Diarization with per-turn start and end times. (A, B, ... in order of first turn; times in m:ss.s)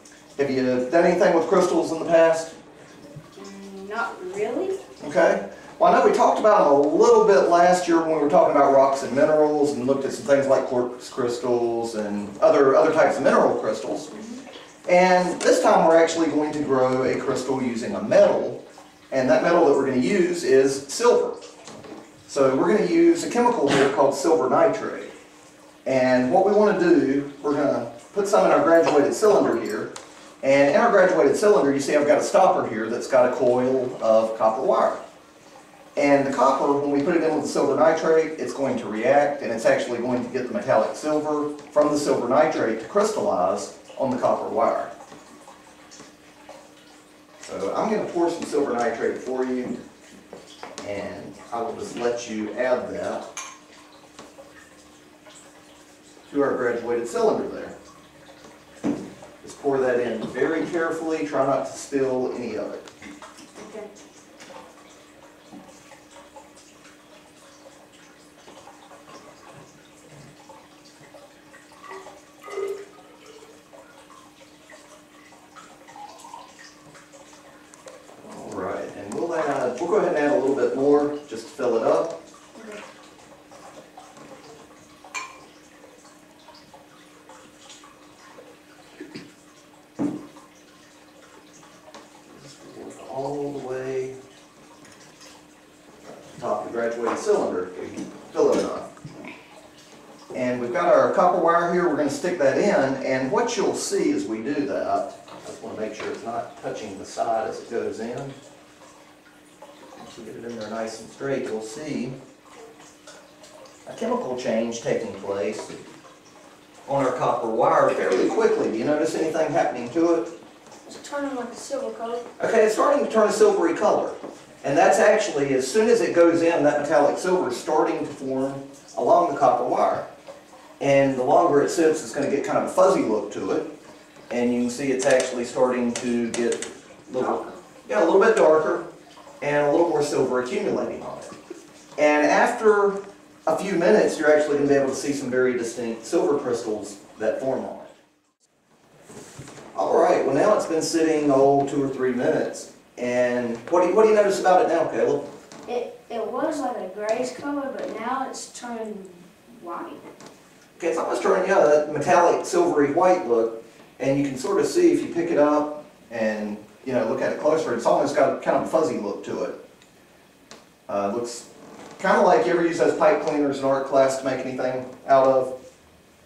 0:00.4-0:02.6 A
0:03.3-0:04.8 B
0:05.0-0:14.1 A
0:14.8-0:21.4 A
0:22.3-0:25.1 A
0:25.8-0:29.9 A
0:30.4-0:35.0 A
0:36.0-0:44.9 A
0:47.4-0:49.8 A
0:50.8-0:53.2 A
0:56.3-0:57.8 A
0:59.4-1:02.8 A
1:03.6-1:03.9 B
1:18.2-1:22.2 A
1:32.3-1:34.2 A
1:36.0-1:38.9 A
1:40.3-1:48.4 A
1:50.0-1:52.2 A
1:53.9-1:55.7 A
1:56.9-2:00.3 A
2:00.8-2:02.3 B
2:02.4-2:10.1 A
2:10.8-2:13.7 A
2:14.3-2:18.8 A
2:19.4-2:21.3 A
2:22.0-2:27.9 A
2:29.7-2:35.2 A
2:35.7-2:40.0 B
2:40.8-2:49.6 A
2:50.9-2:51.5 A
2:52.0-2:55.5 A